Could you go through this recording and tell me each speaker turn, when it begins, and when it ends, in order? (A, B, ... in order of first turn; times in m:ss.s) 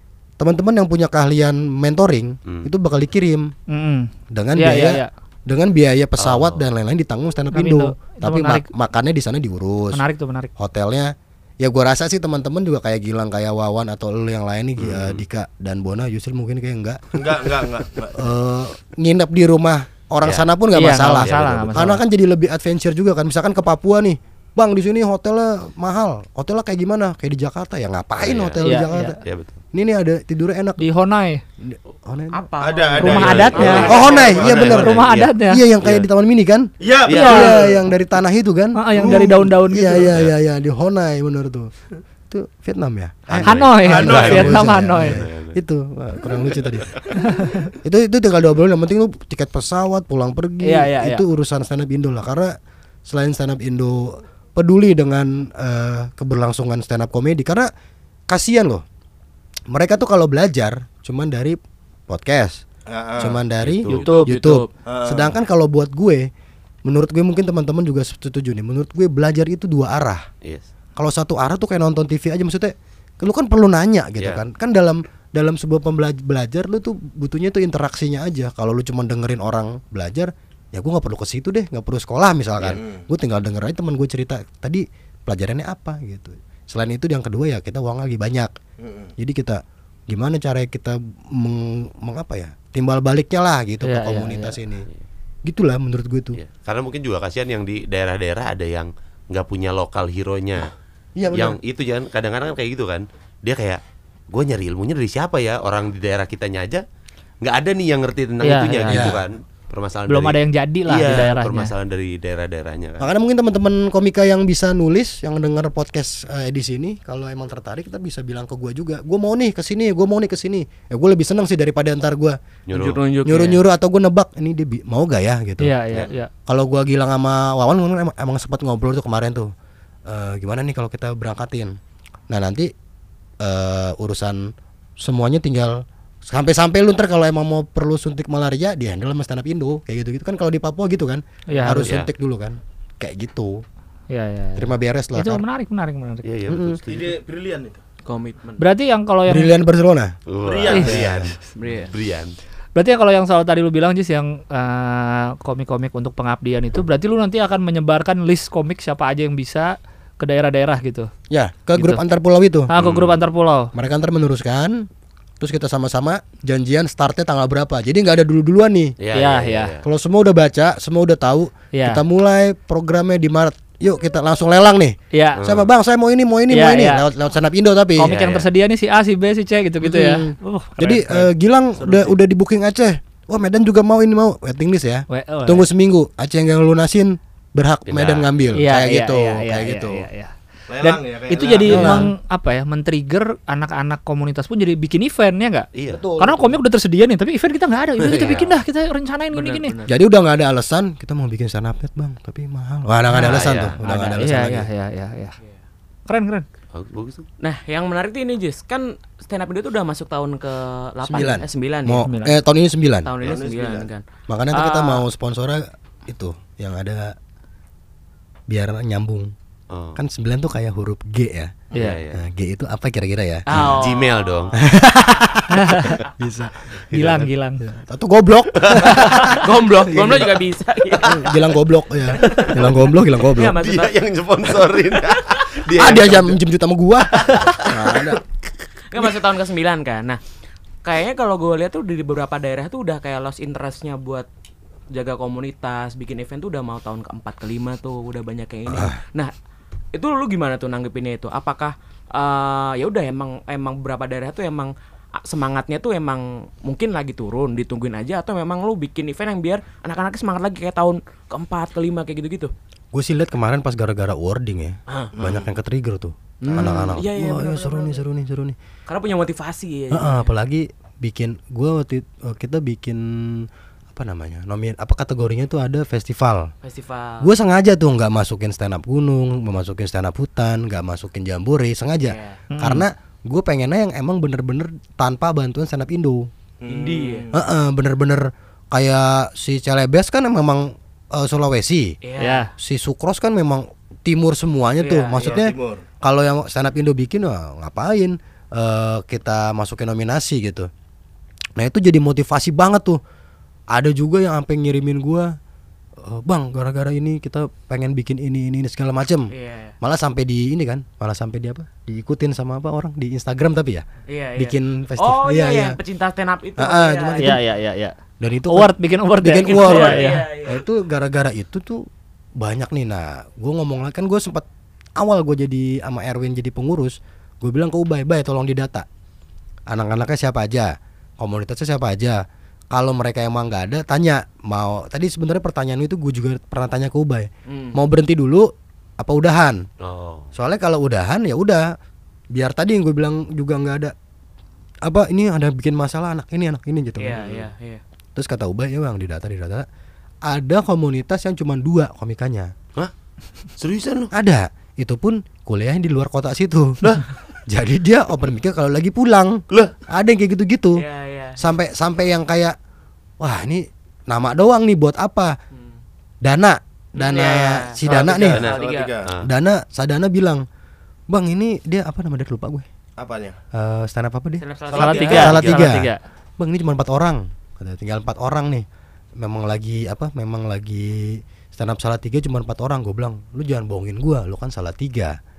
0:00.4-0:03.5 A
0:03.7-0:05.1 B
0:04.3-0:10.0 A
0:06.2-0:06.6 C
0:07.5-0:08.6 B
0:09.9-0:10.5 B
0:10.6-0:17.2 A
0:14.8-0:15.2 C
0:17.1-0:18.3 D
0:18.1-0:29.2 A
0:20.2-0:20.5 C
0:20.7-0:22.0 B
0:21.2-0:21.9 C
0:28.2-0:29.6 C
0:28.6-0:29.2 B
0:29.7-0:30.8 A
0:30.8-0:31.4 B
0:31.6-0:32.4 A
0:32.3-0:34.4 E
0:32.6-0:34.8 D
0:33.0-0:35.6 B
0:33.0-0:36.1 C
0:33.9-0:41.7 A
0:36.8-0:37.8 D
0:37.0-0:37.5 C
0:37.1-0:37.5 B
0:38.8-0:40.1 B
0:38.9-0:39.5 D
0:42.3-0:46.9 A
0:43.3-0:45.6 C
0:43.4-0:45.2 B
0:43.8-0:44.5 D
0:47.3-0:47.7 B
0:47.8-0:52.5 A
0:50.6-0:51.2 B
0:53.0-0:57.7 A
0:58.3-0:58.8 A
0:59.7-1:01.6 A
1:02.1-1:02.6 A
1:02.9-1:03.4 D
1:03.2-1:06.3 A
1:03.6-1:04.3 C
1:03.9-1:04.7 E
1:04.8-1:05.3 D
1:06.8-1:10.3 A
1:11.0-1:28.5 A
1:22.7-1:23.0 D
1:28.8-1:29.1 D
1:29.2-1:34.8 A
1:33.8-1:34.6 B
1:35.4-1:36.4 A
1:36.3-1:40.7 C
1:41.2-1:41.6 A
1:41.3-1:43.8 C
1:44.3-1:46.8 C
1:47.4-1:53.0 C
1:48.4-1:49.1 B
1:48.9-1:49.2 A
1:50.1-1:51.7 B
1:53.0-2:02.4 A
2:02.7-2:03.0 C
2:02.7-2:03.6 E
2:03.2-2:05.7 A
2:05.6-2:06.3 B
2:06.5-2:09.5 A
2:10.1-2:11.7 A
2:12.3-2:12.7 A
2:13.4-2:14.5 A
2:15.0-2:23.6 A
2:21.5-2:21.9 B
2:21.8-2:22.1 C
2:24.1-2:26.2 B
2:24.6-2:25.4 A
2:26.2-2:27.1 C
2:26.5-2:26.8 A
2:26.9-2:27.8 D
2:28.0-2:28.7 E
2:28.6-2:29.5 B
2:29.3-2:30.1 A
2:30.3-2:32.4 C
2:30.4-2:31.2 D
2:30.8-2:31.2 A
2:31.5-2:31.9 E
2:32.7-2:41.1 B
2:41.3-2:42.7 A
2:41.7-2:42.0 B
2:42.7-2:43.7 B
2:42.8-2:43.2 C
2:43.7-2:44.8 A
2:45.4-2:48.9 A
2:49.0-2:49.8 C
2:49.1-2:49.7 B
2:49.8-2:58.1 A
2:51.7-2:52.0 B
2:55.1-2:55.4 B
2:55.4-2:55.7 C
2:56.5-2:57.0 B
2:58.0-3:01.3 B
2:58.0-2:58.5 C
2:59.8-3:10.0 A
3:05.1-3:05.7 B
3:07.9-3:08.5 C
3:08.6-3:15.7 B
3:10.7-3:12.1 D
3:11.6-3:12.1 A
3:15.7-3:16.0 C
3:15.9-3:16.6 A
3:16.2-3:19.7 B
3:18.0-3:18.6 C
3:19.3-3:19.9 E
3:19.8-3:24.7 A
3:23.1-3:25.4 B
3:23.2-3:23.8 C
3:26.1-3:26.4 B
3:26.7-3:27.2 C
3:27.4-3:32.0 E
3:31.0-3:33.1 A
3:32.0-3:32.3 B
3:33.0-3:35.0 E
3:33.2-3:33.9 D
3:34.3-3:37.1 A
3:38.5-3:39.3 A
3:39.7-3:40.0 C
3:39.9-3:41.6 A
3:41.7-3:42.0 B
3:41.7-3:42.2 C
3:42.1-3:43.8 A
3:43.5-3:44.5 E
3:43.5-3:44.5 C
3:44.6-3:50.4 A
3:45.5-3:46.0 B
3:46.9-3:47.6 B
3:48.8-3:49.4 B
3:49.3-3:51.5 E
3:51.0-3:53.6 A
3:52.2-3:55.4 E
3:53.5-3:56.4 C
3:55.7-3:58.2 A
3:57.3-3:58.0 C
3:58.9-4:00.2 E
4:00.8-4:04.3 E
4:04.9-4:09.3 E
4:08.7-4:09.0 A
4:09.9-4:22.5 E
4:22.9-4:28.6 A
4:24.9-4:25.1 E
4:25.2-4:25.4 D
4:26.4-4:28.0 E
4:28.9-4:30.3 E
4:29.9-4:36.5 A
4:36.6-4:37.3 E
4:37.2-4:46.3 A
4:42.0-4:42.4 E
4:42.5-4:42.8 B
4:46.6-4:47.4 D
4:46.7-4:47.3 E
4:47.3-4:51.9 A
4:52.0-4:52.5 E
4:52.2-4:52.5 B
4:52.6-5:00.7 A
4:54.8-4:55.2 E
4:55.1-4:55.8 D
5:01.6-5:03.0 A
5:03.7-5:05.3 A
5:06.0-5:13.8 A
5:09.3-5:09.7 E
5:14.1-5:17.4 E
5:14.4-5:15.8 A
5:16.6-5:17.4 A
5:17.2-5:17.9 B
5:18.2-5:21.8 A
5:18.5-5:20.2 B
5:19.4-5:20.6 E
5:22.4-5:24.4 A
5:25.0-5:28.8 A
5:29.7-5:32.2 A
5:32.7-5:38.5 A
5:37.5-5:37.8 E
5:39.0-5:39.6 A
5:39.8-5:40.3 C
5:40.3-5:41.6 A
5:42.3-5:43.9 A
5:44.8-5:47.2 A
5:47.0-5:47.8 E
5:47.2-5:47.5 C
5:48.1-5:49.6 A
5:50.2-5:52.5 A
5:53.6-5:54.1 C
5:54.1-5:56.8 A
5:57.5-6:00.8 A
6:00.7-6:01.4 E
6:01.4-6:02.6 A
6:03.2-6:05.3 A
6:06.2-6:08.4 A
6:07.0-6:08.9 E
6:07.8-6:09.1 D
6:08.4-6:09.3 C
6:09.2-6:10.4 A
6:11.1-6:12.6 A
6:13.0-6:13.4 D
6:13.5-6:14.4 A
6:14.4-6:15.4 E
6:14.7-6:15.3 D
6:14.7-6:16.0 B
6:14.9-6:15.6 C
6:15.1-6:18.6 A
6:19.2-6:25.2 A